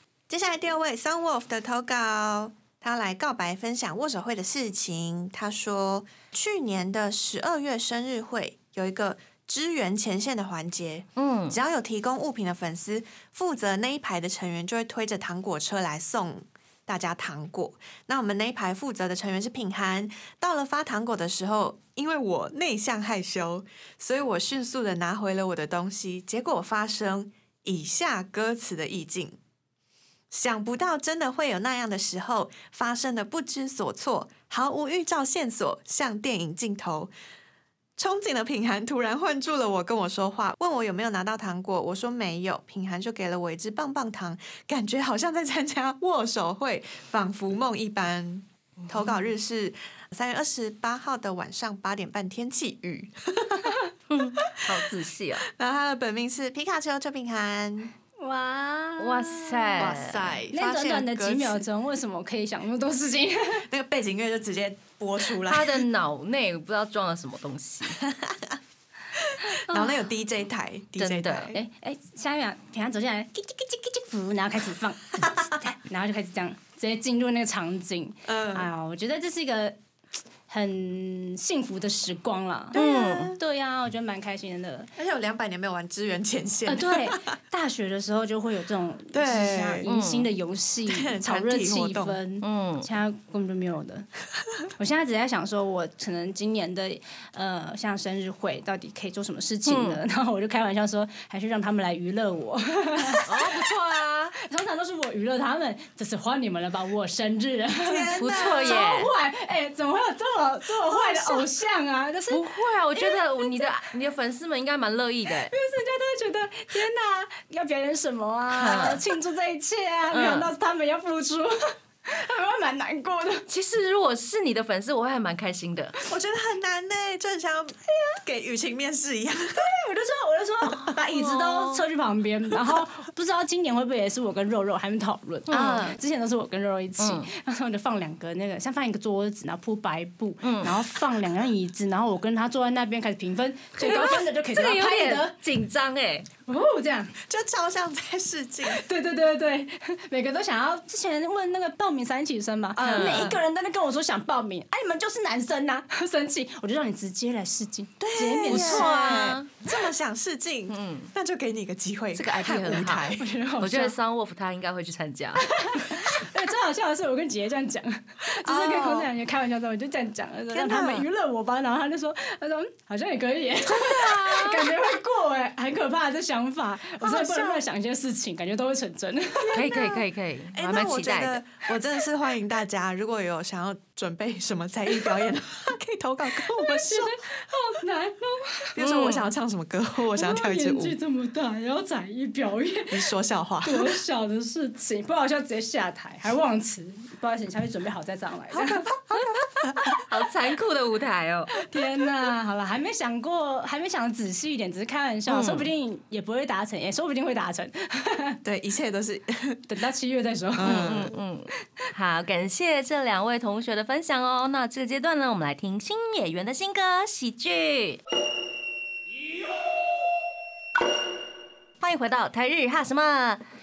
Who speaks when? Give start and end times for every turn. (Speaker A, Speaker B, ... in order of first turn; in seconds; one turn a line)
Speaker A: 0.3-29.4
Speaker B: 11.2-11.6
Speaker A: 30.3-37.1
Speaker A: 38.0-53.8
Speaker B: 54.1-55.4
Speaker A: 54.5-54.9
Speaker A: 55.4-57.9
Speaker C: 58.2-63.7
Speaker B: 59.0-60.4
Speaker A: 59.8-61.6
Speaker A: 63.7-65.9
Speaker B: 65.4-68.0
Speaker A: 68.0-68.6
Speaker A: 69.2-71.6
Speaker C: 69.4-70.0
Speaker B: 71.0-71.6
Speaker C: 71.5-79.8
Speaker A: 75.2-75.5
Speaker A: 78.2-78.7
Speaker C: 80.5-82.8
Speaker A: 82.7-83.4
Speaker B: 82.7-83.4
Speaker C: 83.3-84.9
Speaker A: 85.0-87.2
Speaker C: 86.7-94.1
Speaker A: 89.1-89.9
Speaker B: 89.9-90.3
Speaker A: 90.9-92.2
Speaker B: 92.4-92.9
Speaker C: 94.8-103.7
Speaker B: 99.7-100.0
Speaker B: 103.2-104.3
Speaker C: 104.3-113.7
Speaker A: 107.8-108.8
Speaker B: 108.2-109.1
Speaker B: 112.3-115.5
Speaker C: 115.5-123.5
Speaker B: 118.5-119.1
Speaker B: 120.1-120.5
Speaker B: 123.5-126.0
Speaker A: 126.0-129.7
Speaker C: 129.6-145.4
Speaker A: 130.7-130.9
Speaker B: 131.1-131.8
Speaker B: 135.5-135.9
Speaker A: 135.5-136.0
Speaker B: 137.0-137.3
Speaker B: 140.4-140.8
Speaker B: 143.8-146.3
Speaker C: 146.4-147.2
Speaker A: 147.3-148.8
Speaker C: 148.7-159.3
Speaker A: 152.8-153.4
Speaker B: 152.8-153.3
Speaker A: 158.0-163.3
Speaker B: 158.5-159.5
Speaker B: 160.7-161.1
Speaker B: 162.1-166.0
Speaker C: 163.2-163.9
Speaker C: 165.4-179.6
Speaker A: 168.4-169.1
Speaker A: 170.5-171.1
Speaker B: 173.7-174.7
Speaker A: 177.0-177.6
Speaker A: 179.4-187.2
Speaker B: 179.5-181.4
Speaker C: 186.4-188.7
Speaker A: 188.7-191.0
Speaker B: 188.8-189.3
Speaker C: 190.1-193.1
Speaker A: 192.9-194.0
Speaker C: 193.6-198.9
Speaker A: 198.5-200.0
Speaker B: 199.9-201.5
Speaker C: 201.5-208.4
Speaker B: 205.3-205.7
Speaker A: 208.4-209.6
Speaker C: 209.7-211.0
Speaker A: 210.5-211.2
Speaker B: 210.6-218.0
Speaker B: 221.8-223.4